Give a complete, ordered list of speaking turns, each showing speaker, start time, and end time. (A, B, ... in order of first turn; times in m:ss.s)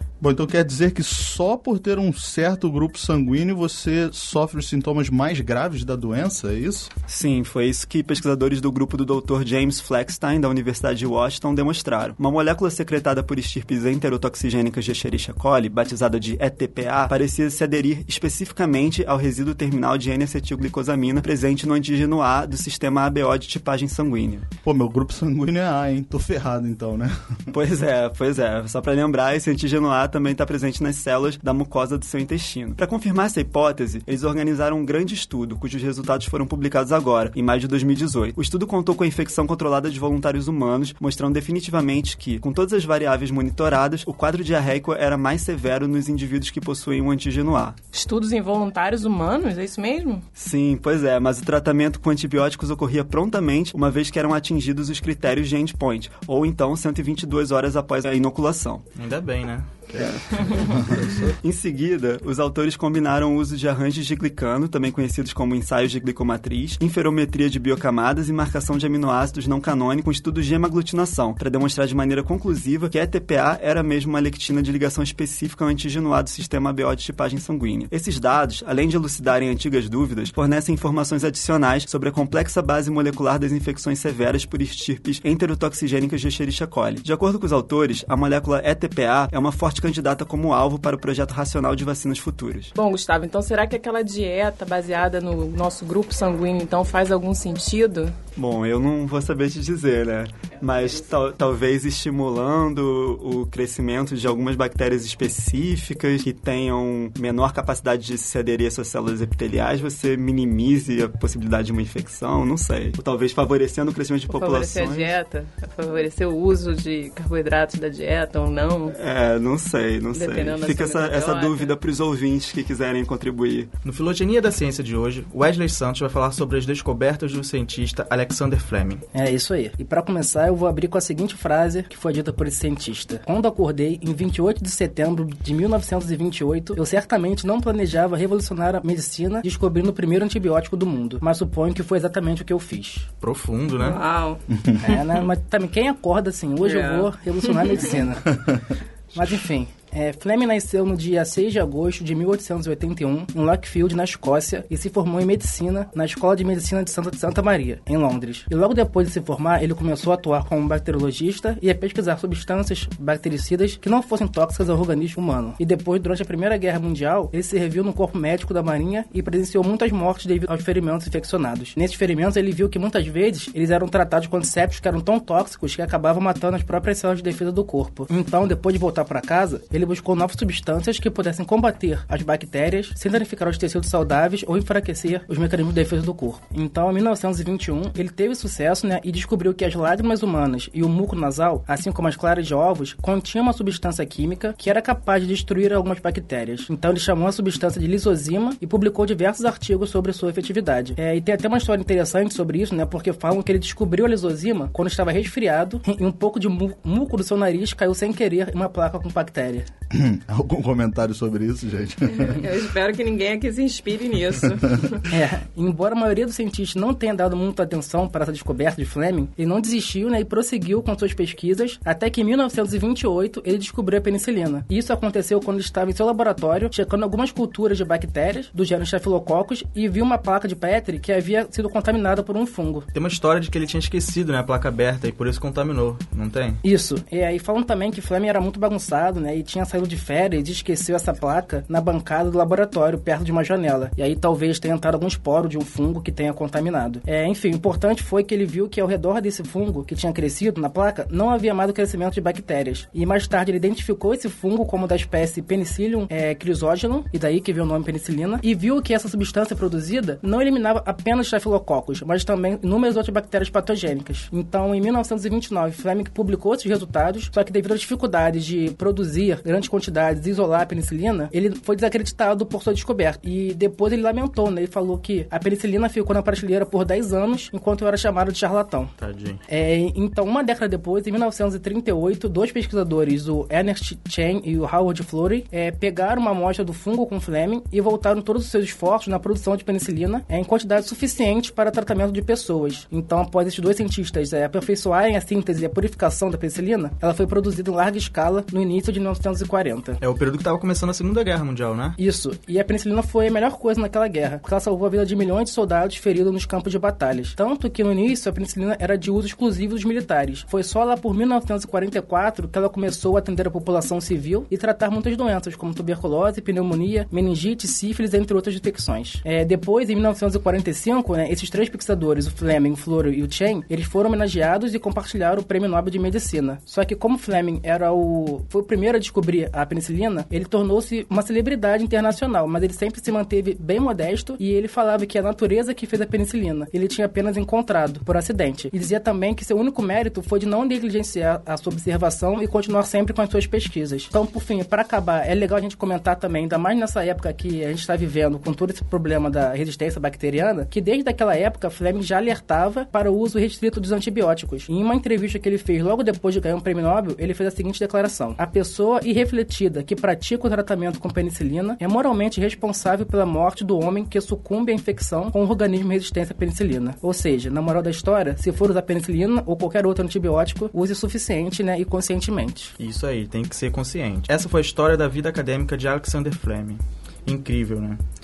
0:00.2-0:06.9 A
0:07.1-0:24.5 B
0:24.6-0:27.5 A
0:27.5-0:47.8 B
0:47.9-0:50.2 C
0:50.4-0:58.8 B
0:59.0-1:01.3 D
1:00.0-1:32.7 B
1:32.8-1:38.2 C
1:38.4-1:55.1 B
1:40.6-1:41.1 C
1:54.3-1:59.0 C
1:58.9-2:03.7 B
2:00.1-2:01.7 C
2:03.8-2:09.0 D
2:09.1-2:23.1 E
2:23.2-2:24.0 D
2:23.8-2:25.2 C
2:24.8-2:28.6 E
2:26.6-2:28.0 C
2:29.1-3:29.7 E
3:29.9-3:32.4 A
3:32.1-3:35.0 C
3:35.1-3:52.9 E
3:52.9-3:56.6 D
3:56.6-4:38.9 E
4:39.0-4:39.4 D
4:39.5-5:00.0 E
5:00.0-5:02.0 D
5:02.0-6:12.7 E
6:12.8-6:18.0 D